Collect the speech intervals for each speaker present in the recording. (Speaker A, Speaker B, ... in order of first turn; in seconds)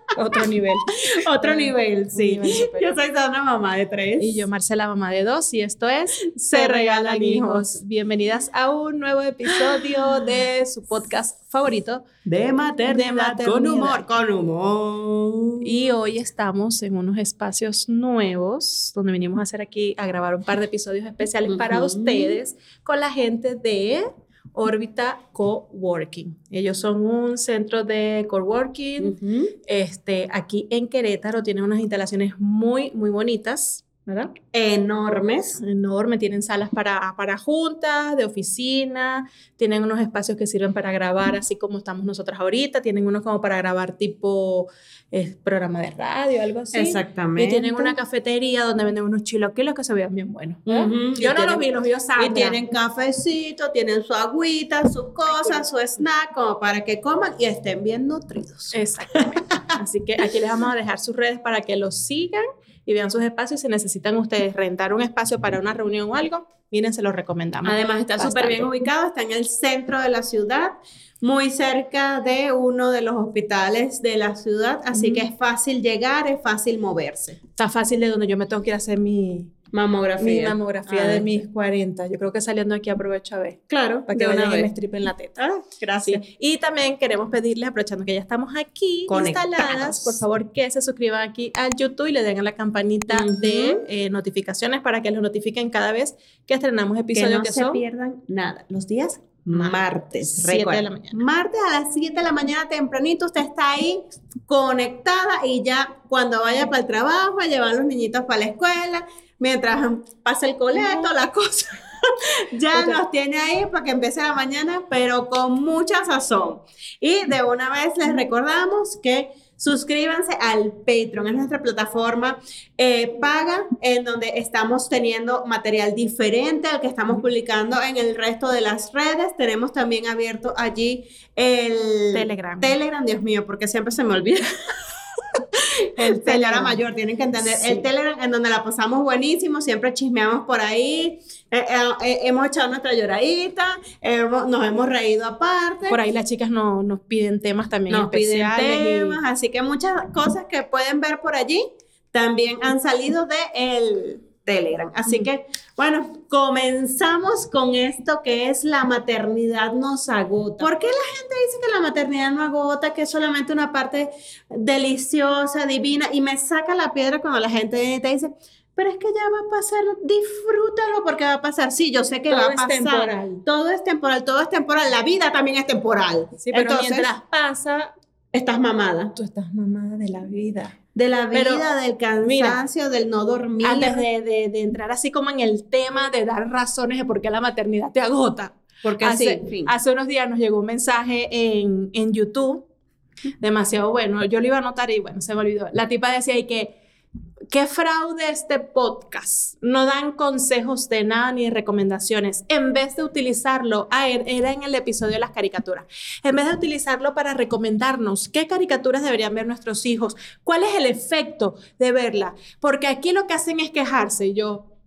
Speaker A: 0.1-3.0, 4.2-12.0, 12.9-14.0, 15.6-29.1, 29.6-34.3, 35.6-52.6, 55.3-56.0, 58.7-68.7, 74.9-75.2, 77.6-79.5, 80.2-85.4, 86.0-97.8, 99.5-101.2, 110.7-111.1, 112.7-113.0, 132.1-132.8, 135.9-136.8, 137.4-137.9, 145.9-149.2, 172.3-173.4, 176.4-177.9, 179.1-180.8, 181.3-181.6, 182.2-182.6, 183.6-192.7, 193.4-196.7, 197.5-214.7
Speaker B: 1.0-4.5, 6.5-7.8, 9.4-9.7, 12.2-15.9, 21.5-22.4, 29.0-29.5, 34.5-35.6, 46.7-48.0, 50.6-59.4, 67.6-77.4, 79.7-81.4, 83.7-84.7, 85.4-86.2, 89.1-90.2, 93.1-93.8, 97.1-134.5, 135.8-146.0, 147.9-177.1, 178.3-179.1, 180.9-184.0, 188.8-189.7